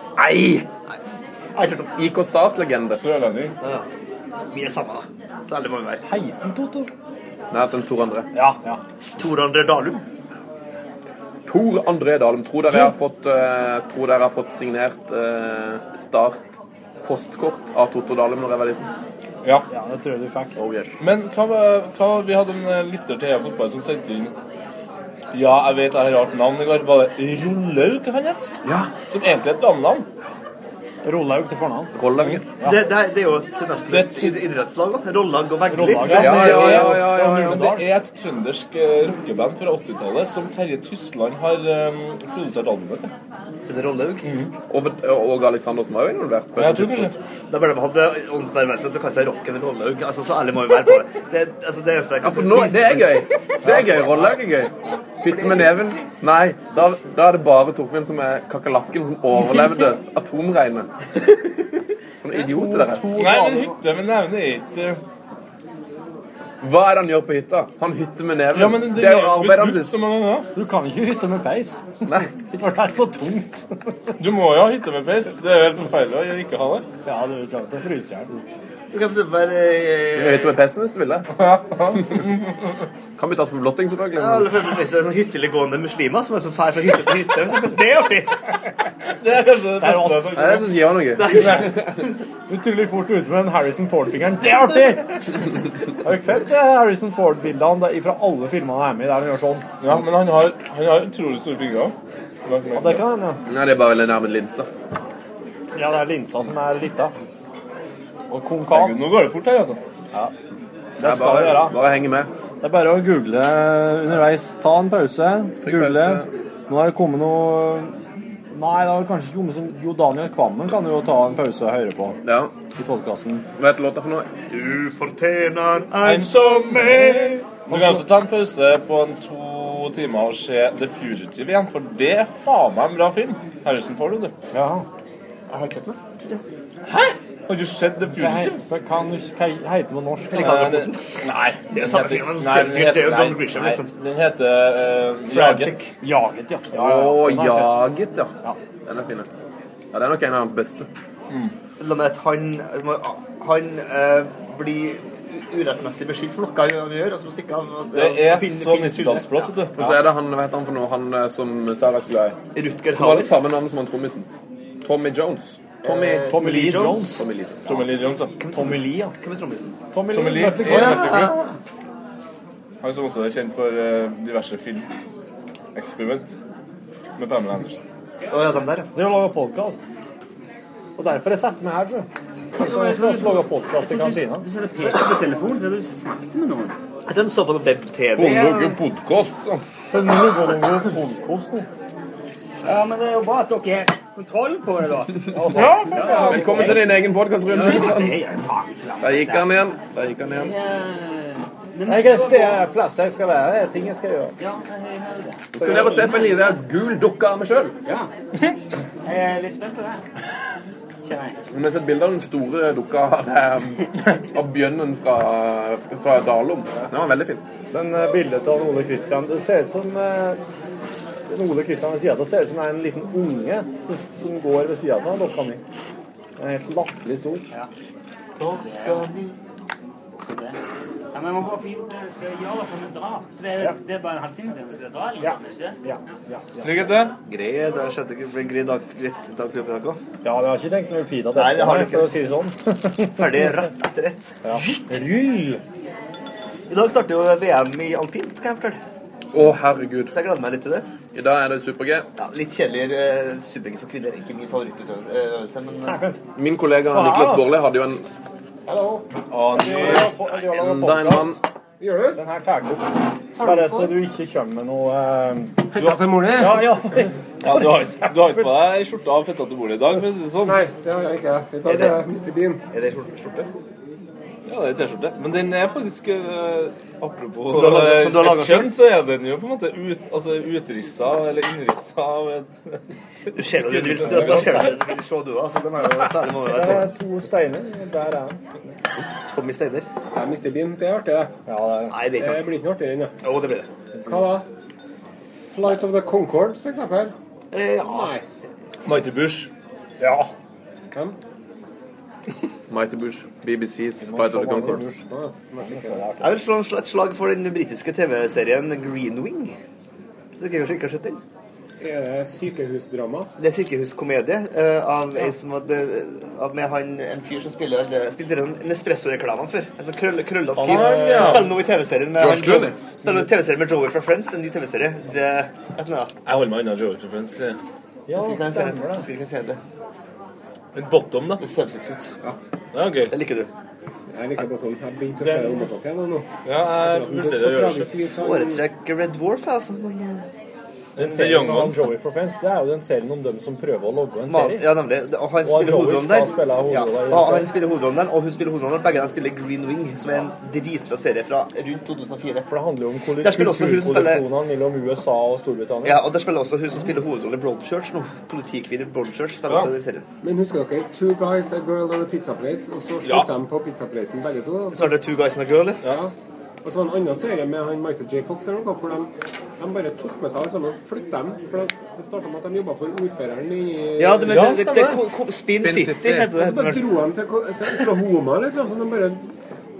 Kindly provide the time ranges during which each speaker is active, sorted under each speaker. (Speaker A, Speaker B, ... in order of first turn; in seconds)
Speaker A: 0.1-0.7, 6.0-6.9, 8.3-8.8, 19.7-20.6, 31.0-31.9, 32.6-32.8, 35.7-37.9, 62.3-63.8, 70.5-74.1, 77.0-78.3, 89.8-90.6, 92.5-95.2, 96.0-99.7, 102.7-103.4, 105.7-107.1, 108.3-109.0, 111.0-111.8, 112.6-122.2, 122.7-123.4, 127.7-128.0, 134.5-134.8, 138.1-140.6, 145.3-147.9, 166.0-167.3, 168.5-169.1, 169.9-171.3, 178.9-179.8, 181.0-184.4, 189.9-191.7, 195.3-196.8, 201.8-204.3, 205.6-205.9, 217.7-220.4, 221.3-225.6, 226.4-227.4, 235.2-236.9, 240.2-243.5, 244.4-245.6, 255.8-256.2, 256.9-257.5, 259.5-261.4, 262.1-268.5, 286.4-288.4, 291.5-291.9, 300.0-300.3, 304.0-305.0, 305.6-306.4, 320.6-321.5, 328.1-329.1, 335.2-335.9, 341.0-344.7, 345.4-347.5, 352.4-356.0
Speaker B: 1.6-1.9, 4.5-6.0, 9.2-10.0, 32.6-36.9, 43.6-44.3, 47.5-54.2, 55.2-55.8, 78.9-80.5, 84.1-88.4, 91.2-91.9, 124.5-127.5, 135.5-136.4, 140.3-141.1, 141.7-143.9, 145.3-145.9, 151.8-159.9, 162.5-163.4, 165.8-167.2, 168.4-169.8, 170.6-171.5, 178.3-178.9, 187.1-188.8, 228.8-229.3, 237.2-240.0, 241.3-242.1, 243.2-244.3, 246.7-248.8, 250.1-250.9, 252.2-256.0, 271.7-271.9, 272.7-273.5, 277.5-278.8, 283.3-286.9, 289.1-289.9, 291.9-292.5, 293.2-293.7, 297.5-298.2, 306.2-309.6, 310.4-311.2, 313.4-326.1, 328.1-329.6, 331.4-332.1, 333.1-333.5, 338.2-340.2, 344.3-352.5, 353.2-354.2, 355.8-360.0, 364.7-365.8, 374.0-376.8
Speaker C: 1.9-3.0, 7.5-8.3, 11.4-18.9, 20.6-21.0, 31.9-32.5, 36.1-37.5, 44.7-47.1, 52.2-60.9, 62.2-63.4, 66.6-69.9, 72.1-72.3, 80.2-81.3, 83.2-84.5, 90.3-92.0, 103.5-104.7, 111.0-112.3, 115.6-116.3, 122.2-122.5, 123.6-124.3, 146.7-148.3, 148.8-149.3, 149.9-150.9, 159.7-162.4, 162.9-164.3, 164.8-166.3, 167.1-167.8, 188.2-189.6, 196.1-198.2, 199.0-200.5, 205.5-207.7, 211.5-217.4, 249.3-250.1, 251.1-252.1, 256.4-258.0, 260.4-261.4, 302.7-304.9, 322.1-322.9, 375.5-376.3
Speaker D: 2.9-3.5, 21.0-24.3, 25.3-28.5, 29.1-30.1, 33.9-34.4, 36.0-43.1, 44.2-44.5, 46.5-47.1, 53.7-54.3, 63.1-65.0, 68.5-70.5, 74.2-76.8, 81.3-82.4, 89.0-90.7, 91.2-91.7, 99.8-103.0, 108.7-109.8, 126.0-134.3, 136.9-138.6, 140.3-145.8, 157.9-159.8, 167.6-168.3, 170.1-171.3, 172.8-174.9, 175.7-176.3, 177.2-177.8, 195.6-196.8, 236.6-237.1, 259.3-260.2, 265.8-266.4, 267.4-270.6, 274.5-282.8, 283.6-284.8, 298.9-299.5, 320.6-321.5, 326.2-327.6, 330.7-331.4, 332.7-333.1, 336.4-338.1, 340.9-341.9, 363.0-363.3, 374.3-375.0
Speaker E: 182.6-186.8, 192.6-196.5, 197.4-199.5, 200.3-202.6, 204.4-206.6, 209.0-210.1, 211.0-211.4, 228.4-229.1, 230.2-230.6, 231.1-235.8, 263.4-263.7
Speaker F: 258.7-259.0, 261.8-262.2, 265.7-266.7, 270.4-272.6, 290.1-291.3, 292.2-293.1, 294.1-294.4, 295.5-297.1, 297.9-298.2, 300.9-301.2, 304.9-306.1, 311.8-313.3, 334.1-338.6, 360.2-365.0, 366.6-374.4, 376.3-379.3